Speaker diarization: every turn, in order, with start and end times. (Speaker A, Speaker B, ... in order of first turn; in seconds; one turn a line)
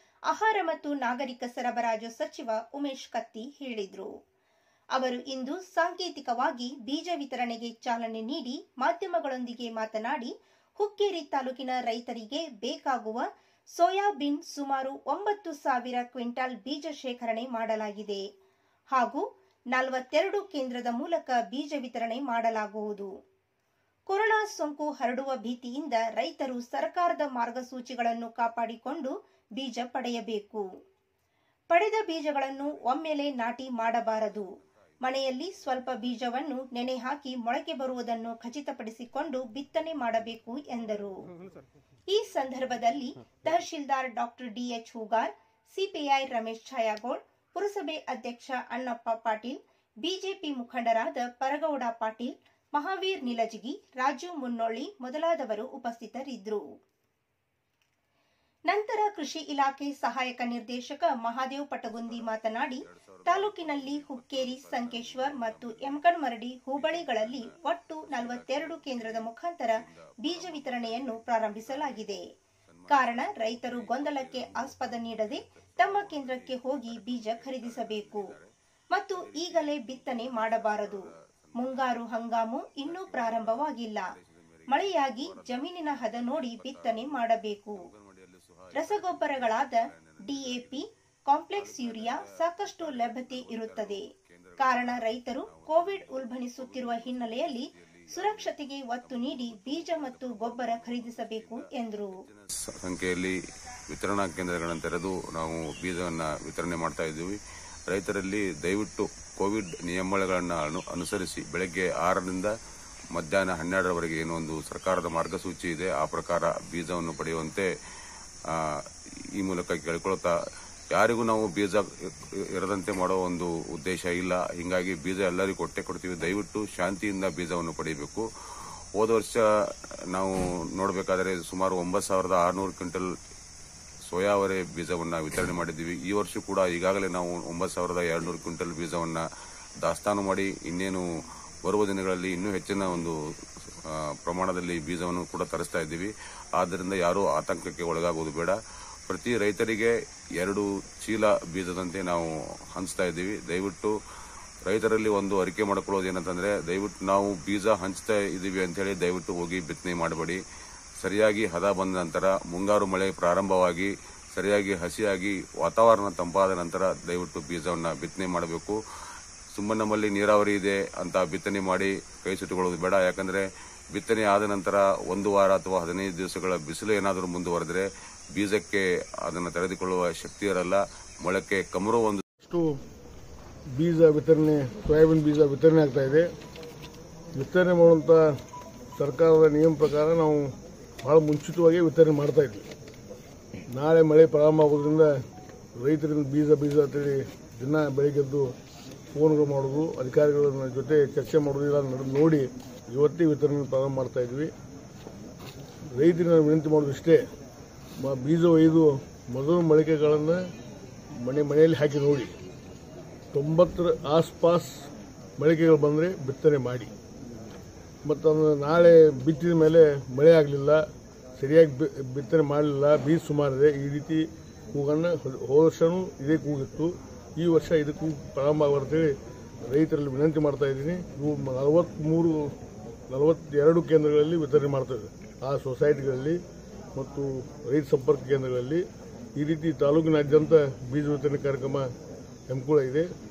Speaker A: 0.3-4.1
Speaker A: 5.0-13.2
Speaker A: 13.8-18.2
Speaker A: 18.9-23.1
Speaker A: 24.1-30.6
Speaker A: 31.7-41.2
Speaker B: 34.0-34.9
Speaker A: 42.1-56.6
Speaker A: 58.7-72.2
Speaker B: 62.0-66.1
Speaker B: 66.7-78.5
Speaker A: 72.9-78.3
Speaker A: 78.9-84.1
Speaker B: 79.1-82.0
Speaker B: 82.8-90.8
Speaker A: 84.7-87.8
Speaker A: 88.7-94.0
Speaker B: 91.5-103.4
Speaker A: 94.6-102.2
Speaker B: 103.9-112.5
Speaker B: 113.1-117.7
Speaker B: 118.5-118.8
Speaker B: 119.4-120.3
Speaker B: 120.9-128.2
Speaker B: 129.0-129.4
Speaker B: 130.1-133.1
Speaker B: 134.1-139.2
Speaker B: 139.8-141.0
Speaker B: 141.6-143.1
Speaker B: 143.9-148.6
Speaker B: 149.1-153.9
Speaker B: 154.7-160.4
Speaker B: 161.0-168.8
Speaker B: 169.5-182.2
Speaker C: 182.4-182.8
Speaker C: 183.7-186.3
Speaker C: 187.3-188.4
Speaker C: 189.0-192.7
Speaker C: 193.7-195.2
Speaker C: 195.8-198.5
Speaker C: 199.1-204.5
Speaker C: 205.9-207.3
Speaker C: 208.0-210.4
Speaker C: 211.2-212.4
Speaker C: 213.3-216.9
Speaker C: 218.0-220.8
Speaker C: 221.3-229.2
Speaker C: 229.7-232.6
Speaker C: 233.1-236.4
Speaker C: 236.9-241.9
Speaker C: 242.5-243.1